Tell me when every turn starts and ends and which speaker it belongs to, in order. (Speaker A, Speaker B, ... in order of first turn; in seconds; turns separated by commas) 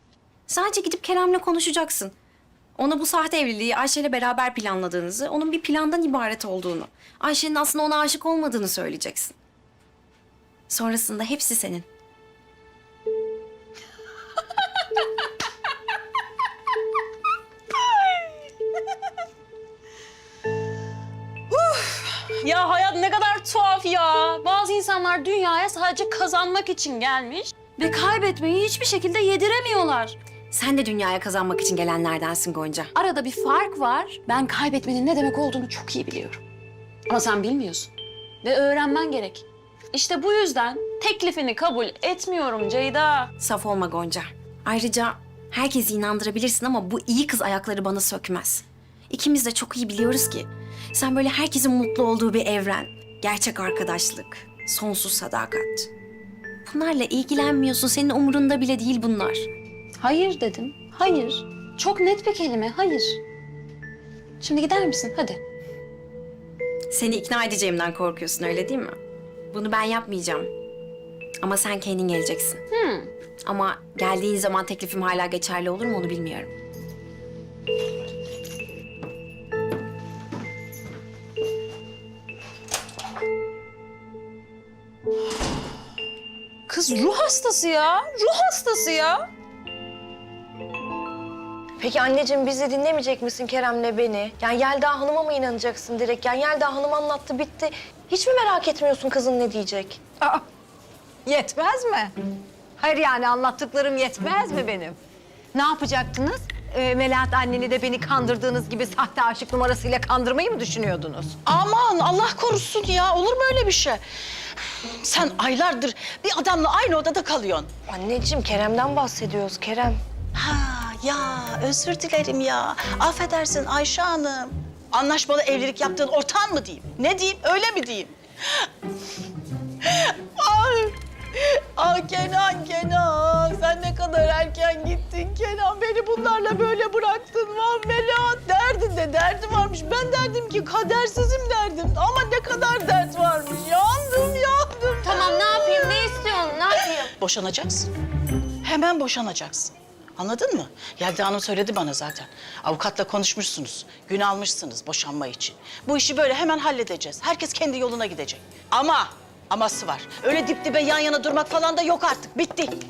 Speaker A: 0.5-2.1, Speaker A: 2.8-9.3, Speaker A: 10.7-11.9, Speaker B: 21.5-30.2, Speaker A: 30.5-32.9, Speaker B: 32.9-36.4, Speaker B: 37.1-37.9, Speaker B: 38.4-43.3, Speaker A: 43.4-55.9, Speaker A: 56.6-59.5, Speaker B: 60.0-63.2, Speaker B: 64.4-65.4, Speaker A: 66.9-69.0, Speaker A: 69.5-70.5, Speaker A: 71.4-72.6, Speaker B: 72.7-73.1, Speaker A: 73.4-76.5, Speaker B: 86.7-89.3, Speaker C: 91.8-100.0, Speaker D: 101.2-102.1, Speaker D: 102.8-105.0, Speaker D: 105.5-111.3, Speaker E: 111.5-114.0, Speaker E: 114.6-117.7, Speaker C: 117.9-120.0, Speaker E: 120.3-128.7, Speaker E: 129.8-146.2, Speaker B: 145.1-146.7, Speaker E: 146.7-147.9, Speaker E: 148.6-162.8